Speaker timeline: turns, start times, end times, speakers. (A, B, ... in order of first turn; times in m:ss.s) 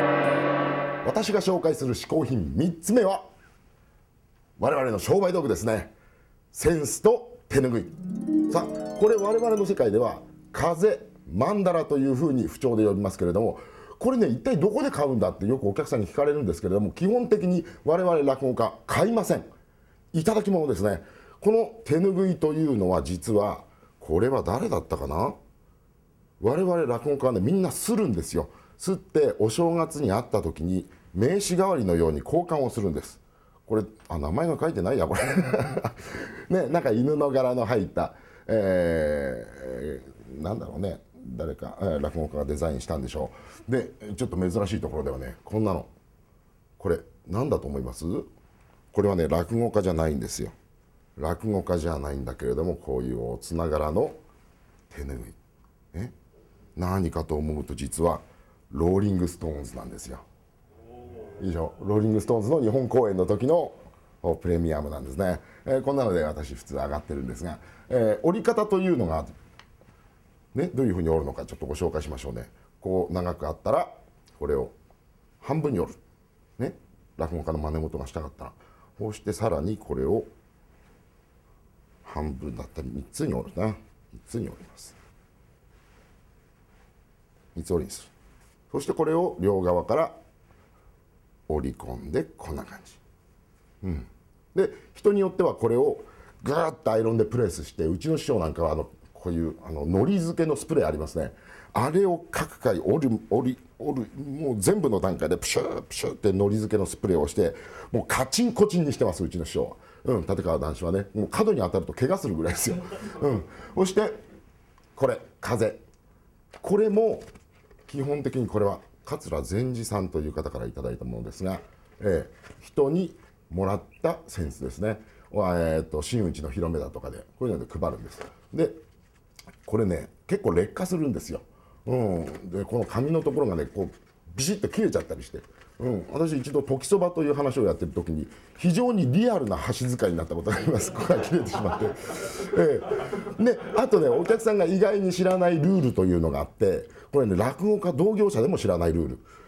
0:01.0-0:03.2 A
0:04.6-0:05.9 A
0:06.5-0:19.5 A
0:20.1-0:25.4 A
0:26.4-0:45.9 A
0:46.8-0:48.3 A
0:48.9-0:50.5 A
0:51.2-0:54.2 A
0:54.9-0:55.4 A
0:56.8-1:00.2 A
1:01.4-1:09.3 A
1:10.5-1:14.7 A
1:15.4-1:16.0 A
1:16.6-1:20.3 A
1:22.0-1:25.0 A
1:27.6-1:28.1 A
1:28.7-1:30.2 A
1:31.5-1:33.0 A
1:33.8-1:54.2 A
1:55.0-1:55.8 A
1:56.6-1:57.3 A
1:57.9-2:08.8 A
2:09.7-2:29.3 A